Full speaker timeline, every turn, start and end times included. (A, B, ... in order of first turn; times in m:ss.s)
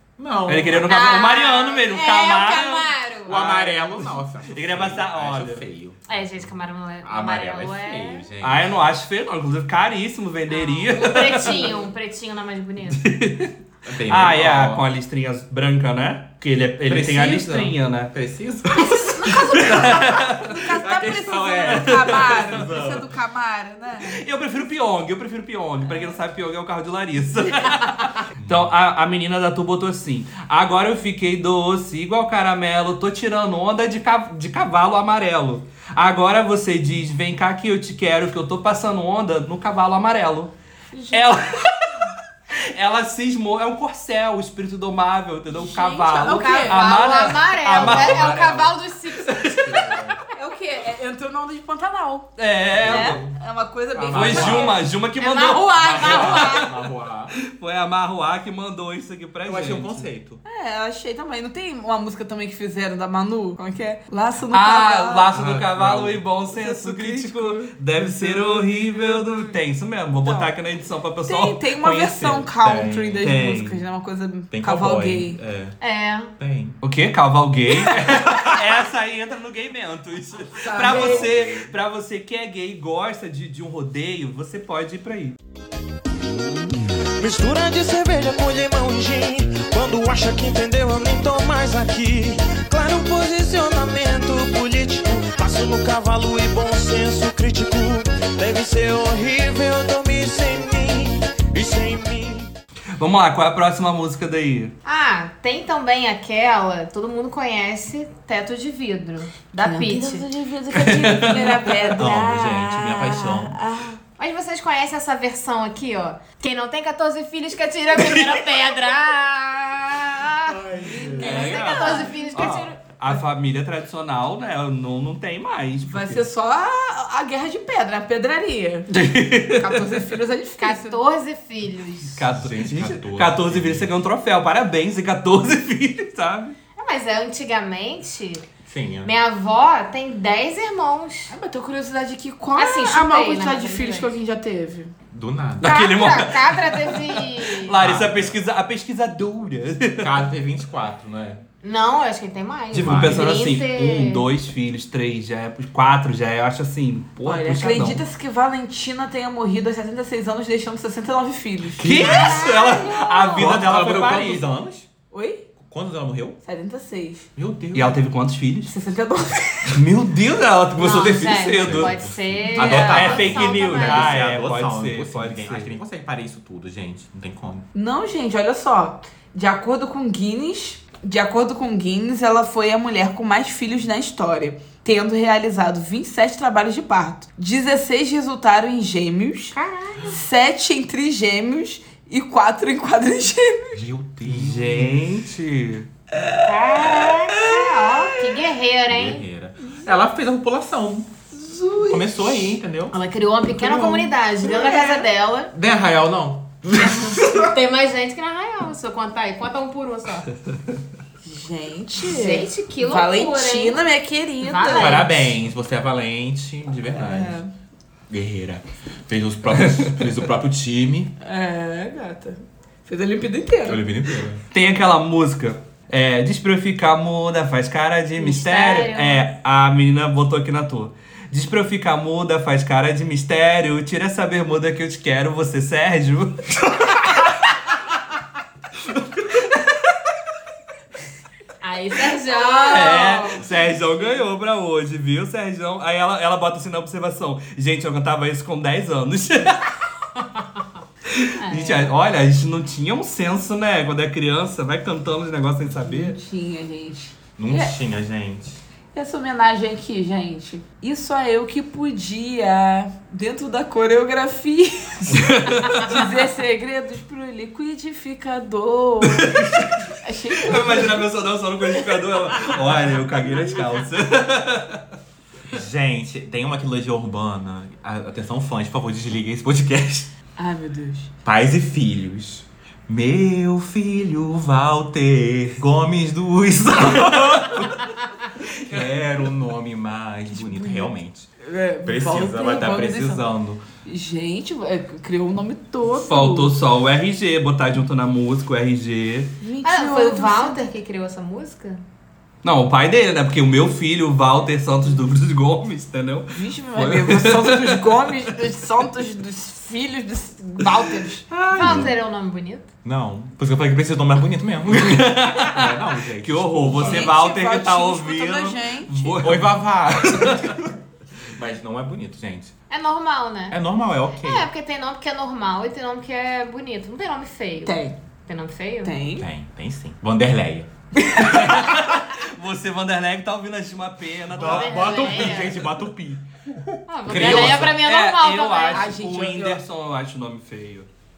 0:00.2-0:01.1 A
0:00.5-0:03.5 B
0:00.8-0:03.9 C
0:03.3-0:06.1 A
0:04.5-0:05.6 B
0:06.1-0:08.3 C
0:07.0-0:08.7 A
0:08.4-0:11.7 B
0:10.5-0:13.1 C
0:13.0-0:13.5 B
0:13.8-0:14.8 A
0:14.0-0:18.1 B
0:16.9-0:23.1 A
0:18.9-0:24.2 D
0:19.3-0:22.7 B
0:24.0-0:40.5 B
0:28.4-0:28.7 A
0:40.9-0:41.2 D
0:41.1-0:42.1 B
0:42.7-0:48.5 B
0:45.5-0:47.3 D
0:46.2-0:49.6 C
0:47.7-0:48.8 A
0:49.1-0:50.0 B
0:49.4-0:50.2 A
0:50.4-0:54.8 D
0:52.4-0:53.2 B
0:52.7-0:53.4 A
0:53.9-0:54.8 A
0:54.1-0:56.7 B
0:55.2-0:56.7 C
0:55.8-0:57.4 A
0:57.5-1:00.1 B
0:59.4-1:00.4 A
1:00.4-1:05.4 D
1:04.5-1:12.5 B
1:05.3-1:06.2 A
1:06.5-1:09.6 D
1:10.1-1:10.5 D
1:11.3-1:15.4 D
1:12.4-1:13.3 A
1:13.2-1:13.8 B
1:14.5-1:15.8 A
1:15.8-1:16.3 C
1:16.4-1:16.8 A
1:16.8-1:25.4 B
1:17.7-1:18.0 D
1:18.2-1:18.6 A
1:20.6-1:21.3 D
1:20.8-1:21.7 A
1:27.2-1:42.5 E
1:43.0-1:44.7 B
1:44.8-1:50.3 C
1:49.6-1:54.0 D
1:50.7-1:51.9 B
1:52.0-1:53.6 A
1:54.2-2:00.6 C
1:58.0-1:58.4 B
2:00.4-2:02.1 A
2:00.9-2:02.5 D
2:01.2-2:02.8 C
2:02.3-2:06.3 B
2:05.8-2:08.9 D
2:08.9-2:10.0 B
2:09.6-2:11.0 D
2:10.6-2:12.2 C
2:12.2-2:16.6 B
2:12.3-2:13.9 A
2:16.8-2:18.4 C
2:18.6-2:19.1 A
2:19.0-2:21.3 C
2:21.3-2:24.9 D
2:22.6-2:24.1 C
2:25.1-2:26.2 A
2:25.6-2:30.2 B
2:25.6-2:27.8 C
2:27.8-2:28.4 A
2:30.0-2:31.4 A
2:31.6-2:34.2 C
2:32.7-2:38.0 B
2:32.8-2:33.3 A
2:37.2-2:41.9 D
2:41.8-2:44.4 B
2:41.8-2:43.5 C
2:43.3-2:44.9 A
2:45.1-2:45.4 D
2:45.6-2:46.4 A
2:46.4-2:47.3 D
2:47.4-2:48.0 A
2:47.7-2:48.7 B
2:48.7-2:49.8 D
2:49.7-2:51.9 B
2:50.8-2:54.3 C
2:51.5-2:57.7 A
2:52.5-2:55.7 B
2:52.6-2:53.0 D
2:57.7-3:13.8 D
3:09.5-3:10.2 C
3:13.7-3:15.2 A
3:14.3-3:15.9 B
3:16.1-3:17.7 D
3:16.4-3:19.2 C
3:18.9-3:21.1 A
3:21.3-3:22.4 D
3:21.8-3:23.0 A
3:22.9-3:25.5 C
3:23.5-3:24.1 A
3:24.4-3:25.1 D
3:25.5-3:27.5 A
3:27.2-3:30.3 C
3:31.2-3:35.0 D
3:32.0-3:33.8 C
3:34.4-3:35.3 C
3:34.8-3:37.4 A
3:36.9-3:37.5 D
3:38.1-3:41.1 A
3:41.2-3:43.8 D
3:43.6-3:44.4 A
3:44.5-3:57.3 B
3:48.2-3:49.3 C
3:58.8-3:59.8 B
4:01.6-4:03.6 C
4:02.7-4:09.8 B
4:11.1-4:16.2 B
4:11.4-4:11.9 C
4:15.9-4:17.8 D
4:17.4-4:18.6 A
4:18.9-4:31.1 D
4:25.2-4:26.0 B
4:29.1-4:29.7 B
4:30.4-4:34.8 B
4:35.5-4:40.1 A
4:40.4-4:41.1 D
4:41.2-4:51.3 A
4:50.3-4:50.9 D
4:51.4-4:53.2 D
4:51.8-4:53.6 A
4:53.9-4:56.5 D
4:55.9-4:59.3 B
4:59.4-5:00.7 D
4:59.6-5:01.8 C
5:02.4-5:08.2 B
5:06.3-5:11.3 D
5:11.3-5:11.9 B
5:11.5-5:12.7 C
5:11.6-5:11.9 A
5:12.8-5:17.1 A
5:14.7-5:20.5 B
5:16.7-5:19.2 D
5:19.2-5:20.8 A
5:21.3-5:22.5 A
5:22.7-5:23.6 C
5:23.5-5:24.5 A
5:24.2-5:28.9 C
5:27.7-5:28.0 D
5:28.8-5:29.3 D
5:29.2-5:30.7 A
5:31.0-5:31.4 D
5:31.2-5:35.4 B
5:31.2-5:31.8 A
5:34.4-5:36.2 A
5:34.4-5:35.6 C
5:36.9-5:38.9 C
5:37.1-5:37.8 A
5:37.1-5:40.9 B
5:38.7-5:39.6 D